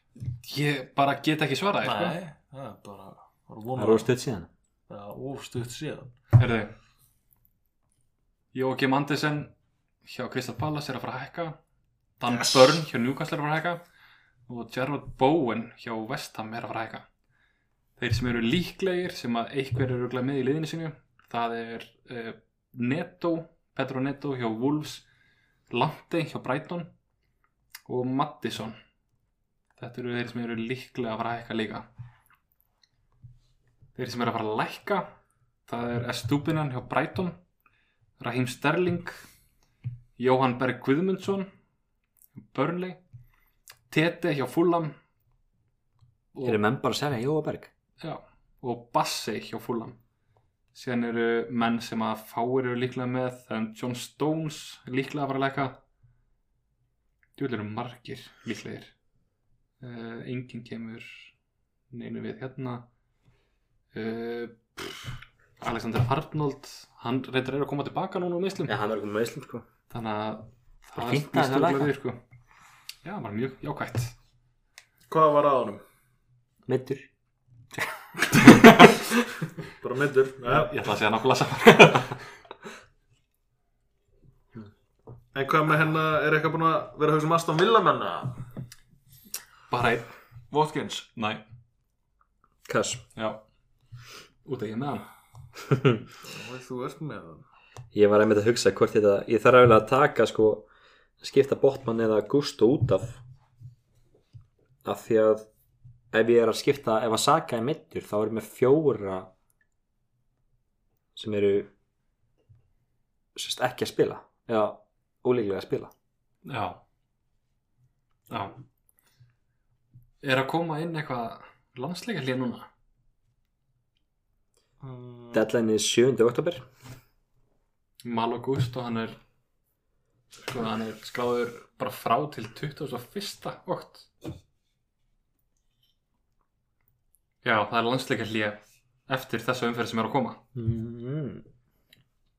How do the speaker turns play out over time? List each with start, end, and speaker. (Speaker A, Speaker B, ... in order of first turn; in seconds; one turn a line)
Speaker A: 0.4-2.2
Speaker B: 1.8-4.1
Speaker C: 3.8-4.5
Speaker B: 4.9-6.1
Speaker A: 6.4-6.7
Speaker A: 8.5-9.5
Speaker A: 10.1-11.6
Speaker A: 12.2-13.8
Speaker B: 12.3-12.8
Speaker A: 14.5-17.1
Speaker A: 18.0-25.1
Speaker A: 25.7-26.9
Speaker A: 27.9-28.8
Speaker A: 29.8-31.9
Speaker A: 34.0-35.1
Speaker A: 35.7-37.4
Speaker A: 38.2-39.1
Speaker A: 40.2-41.5
Speaker A: 42.4-43.0
Speaker A: 43.9-45.0
Speaker A: 46.3-46.6
Speaker C: 46.5-47.7
Speaker A: 48.0-50.0
Speaker A: 50.7-55.8
Speaker A: 57.4-58.9
Speaker A: 59.8-61.3
Speaker A: 61.9-62.9
Speaker A: 63.9-65.0
Speaker A: 65.6-68.7
Speaker C: 68.7-69.7
Speaker A: 69.9-72.2
Speaker C: 71.0-71.9
Speaker A: 73.0-74.1
Speaker B: 75.1-75.8
Speaker C: 76.7-77.1
Speaker C: 78.4-79.0
Speaker B: 79.8-80.7
Speaker A: 80.5-82.2
Speaker B: 85.3-88.4
Speaker A: 89.7-90.1
Speaker B: 90.5-91.1
Speaker A: 91.2-91.4
Speaker C: 92.7-93.0
Speaker A: 94.5-95.0
Speaker C: 95.7-96.0
Speaker B: 96.2-97.4
Speaker C: 97.9-100.7
Speaker C: 101.2-103.2
Speaker C: 104.8-105.5
Speaker C: 106.1-109.3
Speaker C: 111.2-111.7
Speaker C: 113.3-115.9
Speaker A: 116.5-116.8
Speaker A: 118.3-118.6
Speaker A: 120.2-122.7
Speaker B: 124.8-125.5
Speaker C: 125.3-126.7
Speaker A: 128.0-129.2
Speaker A: 130.4-134.1
Speaker A: 137.4-140.4
Speaker C: 140.6-141.5